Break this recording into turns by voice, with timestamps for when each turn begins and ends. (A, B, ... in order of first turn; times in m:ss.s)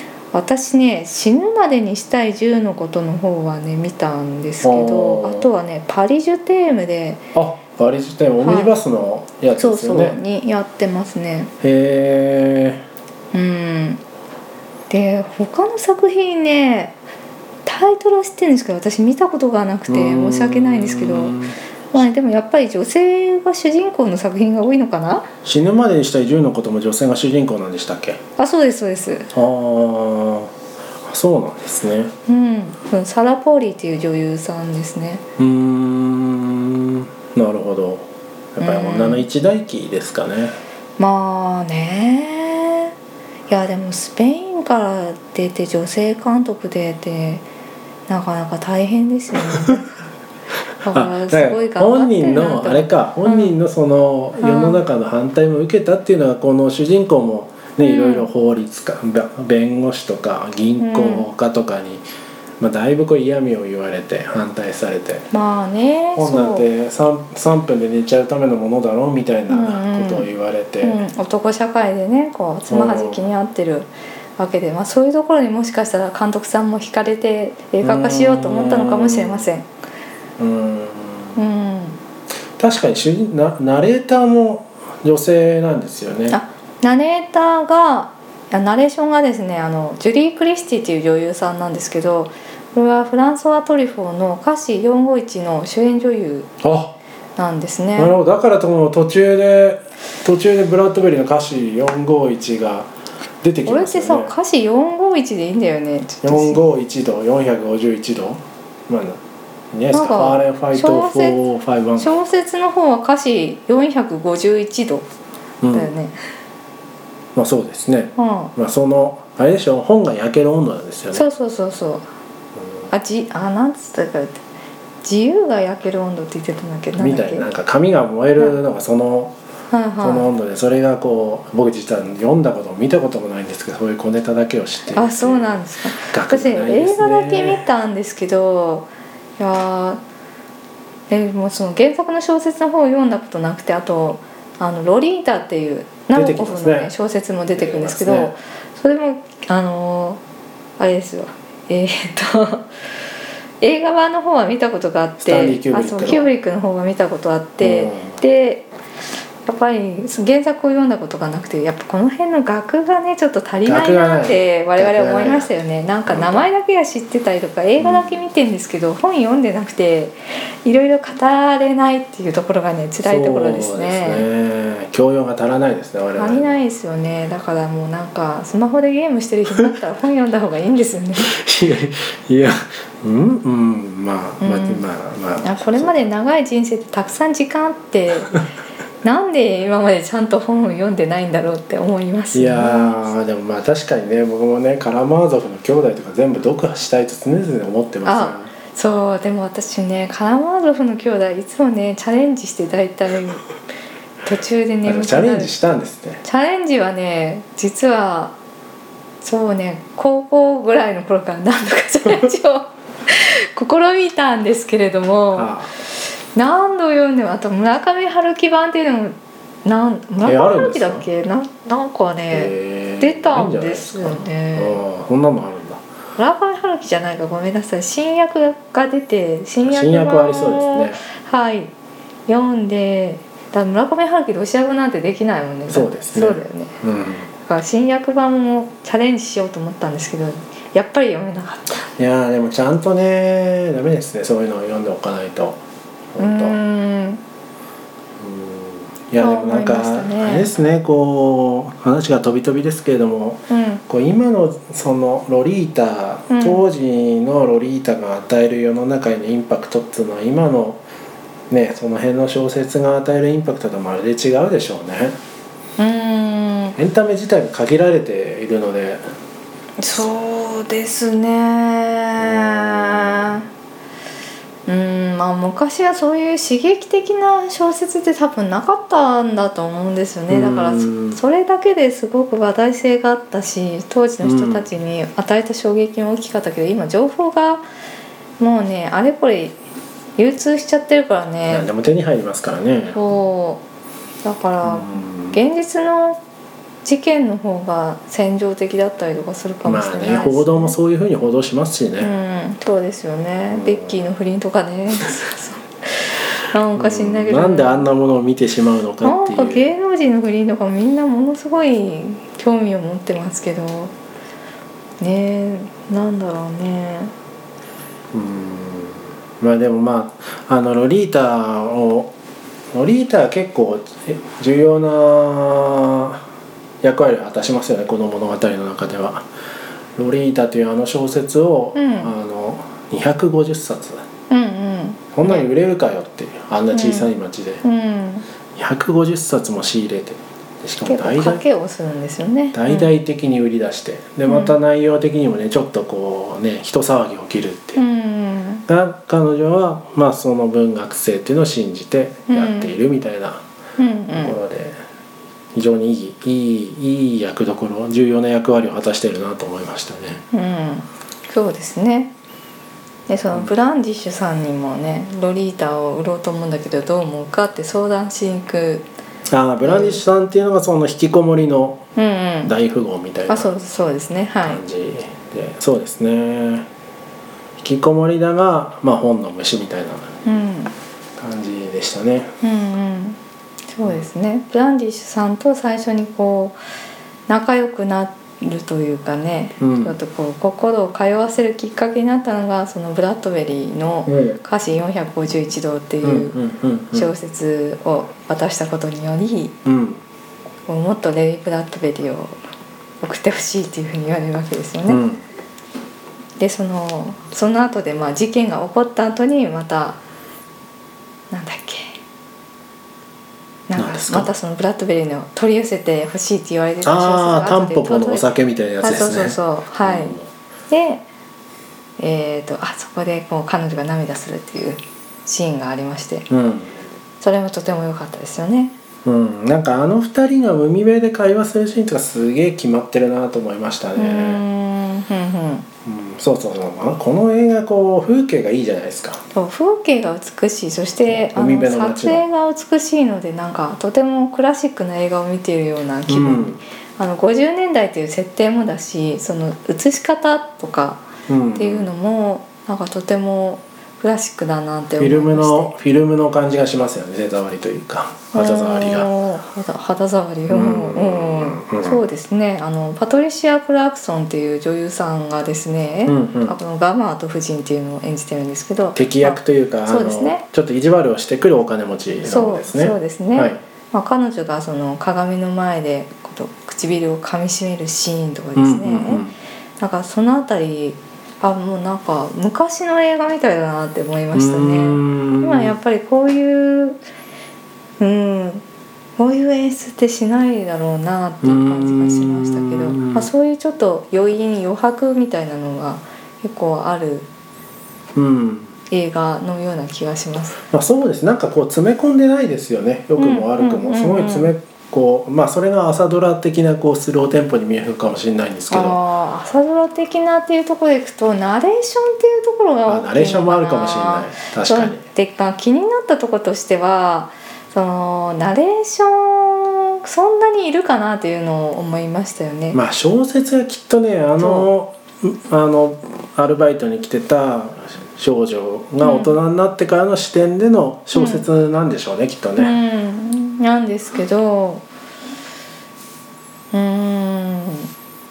0:00.3-0:07.2 A
0:04.6-0:05.5 B
0:07.3-0:10.2 B
0:08.4-0:08.7 A
0:09.6-0:11.5 A
0:11.6-0:12.8 B
0:13.3-0:14.0 A
0:14.9-0:17.0 A
0:17.6-0:21.4 A
0:19.9-0:21.6 B
0:21.9-0:25.3 A
0:25.4-0:28.2 B
0:28.4-0:29.3 A
0:29.3-0:30.5 B
0:31.0-0:32.1 B
0:32.3-0:35.2 A
0:35.4-0:40.6 B
0:38.6-0:39.2 A
0:41.0-0:42.9 A
0:43.5-0:47.4 A
0:48.1-0:49.8 A
0:50.8-0:53.5 A
0:50.9-1:02.0 B
0:54.4-0:54.8 A
0:57.8-0:58.3 A
1:00.8-1:01.3 A
1:02.6-1:05.3 B
1:05.3-1:06.6 A
1:06.2-1:11.0 B
1:09.5-1:10.3 A
1:10.8-1:19.7 A
1:12.7-1:13.2 B
1:17.8-1:19.4 B
1:20.4-1:21.4 B
1:21.4-1:22.0 A
1:22.6-1:26.4 B
1:26.3-1:36.5 A
1:36.6-1:36.9 B
1:37.4-1:38.1 A
1:38.0-1:44.3 B
1:43.6-1:46.6 A
1:46.2-1:49.2 B
1:49.7-1:52.1 B
1:49.9-1:51.4 A
1:52.0-1:55.0 A
1:55.6-1:55.9 B
1:55.7-1:56.1 A
1:57.3-2:01.2 B
1:58.2-1:58.5 A
2:01.1-2:02.0 A
2:02.9-2:04.4 A
2:05.0-2:07.5 A
2:07.0-2:09.3 B
2:09.7-2:10.3 A
2:10.0-2:17.6 B
2:14.9-2:20.0 A
2:21.1-2:30.2 A
2:26.1-2:26.9 B
2:27.5-2:28.3 B
2:30.8-2:32.7 A
2:33.6-2:38.7 A
2:35.2-2:36.3 B
2:37.6-2:38.2 B
2:39.4-2:54.2 A
2:43.6-2:45.5 B
2:46.0-2:46.4 B
2:47.8-2:48.2 B
2:53.0-2:56.6 B
2:56.2-3:01.3 A
3:01.2-3:06.1 B
3:04.4-3:04.8 A
3:05.4-3:08.4 A
3:09.0-3:13.1 A
3:12.3-3:18.5 B
3:18.0-3:23.5 A
3:24.2-3:25.5 A
3:24.8-3:26.2 B
3:26.2-3:28.3 A
3:29.2-3:35.5 A
3:35.3-3:35.7 B
3:36.3-3:44.8 A
3:40.2-3:41.0 B
3:42.3-3:45.8 B
3:46.2-3:51.7 A
3:49.6-3:51.0 B
3:52.3-3:56.7 A
3:55.7-3:57.3 B
3:57.4-4:01.9 A
4:02.0-4:05.6 B
4:06.1-4:06.6 B
4:06.2-4:07.2 A
4:08.2-4:20.8 B
4:09.2-4:10.5 A
4:13.5-4:13.8 A
4:16.3-4:16.6 A
4:21.5-4:25.2 B
4:25.8-4:26.8 A
4:26.8-4:29.0 B
4:29.8-4:33.4 A
4:32.2-4:33.3 B
4:34.6-4:47.6 A
4:40.3-4:41.2 B
4:44.2-4:44.7 B
4:48.4-4:49.6 A
4:50.2-4:51.7 A
4:51.5-4:53.0 B
4:52.9-4:53.6 A
4:54.2-4:56.2 A
4:54.6-4:55.4 B
4:56.8-5:00.8 A
4:59.6-5:02.1 B
5:02.0-5:07.9 A
5:03.5-5:04.0 B
5:06.8-5:09.7 B
5:09.0-5:13.9 A
5:15.0-5:17.1 A
5:18.1-5:22.1 B
5:22.7-5:26.2 B
5:26.8-5:29.2 B
5:30.0-5:34.0 B
5:31.7-5:32.1 A
5:34.3-5:35.4 A
5:35.1-5:37.6 B
5:36.7-5:37.1 A
5:37.6-5:38.2 A
5:38.5-5:41.4 B
5:40.8-5:42.9 A
5:42.5-5:47.8 B
5:44.2-5:44.6 A
5:47.8-5:48.6 A
5:48.7-5:53.4 B
5:52.3-5:52.7 A
5:53.8-5:54.4 A
5:54.1-5:54.8 B
5:55.5-6:00.2 B
6:00.3-6:02.1 A
6:03.1-6:08.9 A
6:09.3-6:11.8 B
6:09.6-6:10.0 A
6:12.0-6:12.5 A
6:12.4-6:13.5 B
6:13.3-6:14.6 A
6:14.4-6:16.7 B
6:17.6-6:20.1 B
6:20.2-6:20.7 A
6:21.2-6:22.3 B
6:22.4-6:23.2 A
6:23.7-6:26.6 A
6:27.3-6:36.4 A
6:29.6-6:30.0 B
6:34.0-6:34.4 B
6:36.0-6:37.1 B
6:36.9-6:39.6 A
6:39.6-6:40.0 B
6:40.7-6:42.4 A
6:43.0-6:45.0 A
6:44.9-6:45.2 B
6:46.4-6:50.0 A
6:51.3-6:52.0 A
6:53.7-7:00.2 A
6:53.8-6:54.3 B
6:56.8-7:00.3 B
7:00.7-7:01.0 A
7:02.0-7:06.3 A
7:06.3-7:06.8 B
7:07.2-7:08.7 A
7:09.0-7:14.4 B
7:14.0-7:15.7 A
7:15.8-7:19.2 B
7:19.3-7:31.0 A
7:21.1-7:22.2 B
7:26.1-7:26.6 B
7:31.3-7:31.9 B
7:31.5-7:35.7 A
7:35.0-7:39.1 B
7:38.3-7:50.4 A
7:40.5-7:42.0 B
7:46.0-7:46.6 B
7:48.9-7:53.6 B
7:52.2-7:59.2 A
7:58.6-7:59.3 B
7:59.8-8:07.0 A
8:04.3-8:05.7 B
8:08.0-8:08.6 A
8:09.2-8:17.3 A
8:11.4-8:13.3 B
8:18.2-8:18.7 B
8:18.9-8:20.6 A
8:20.7-8:29.0 B
8:23.2-8:24.5 A
8:28.7-8:42.8 A
8:32.9-8:35.0 B
8:42.7-8:52.8 B
8:44.4-8:44.7 A
8:49.0-8:49.4 A
8:51.1-8:51.4 A
8:52.6-8:54.8 A
8:56.7-8:57.9 A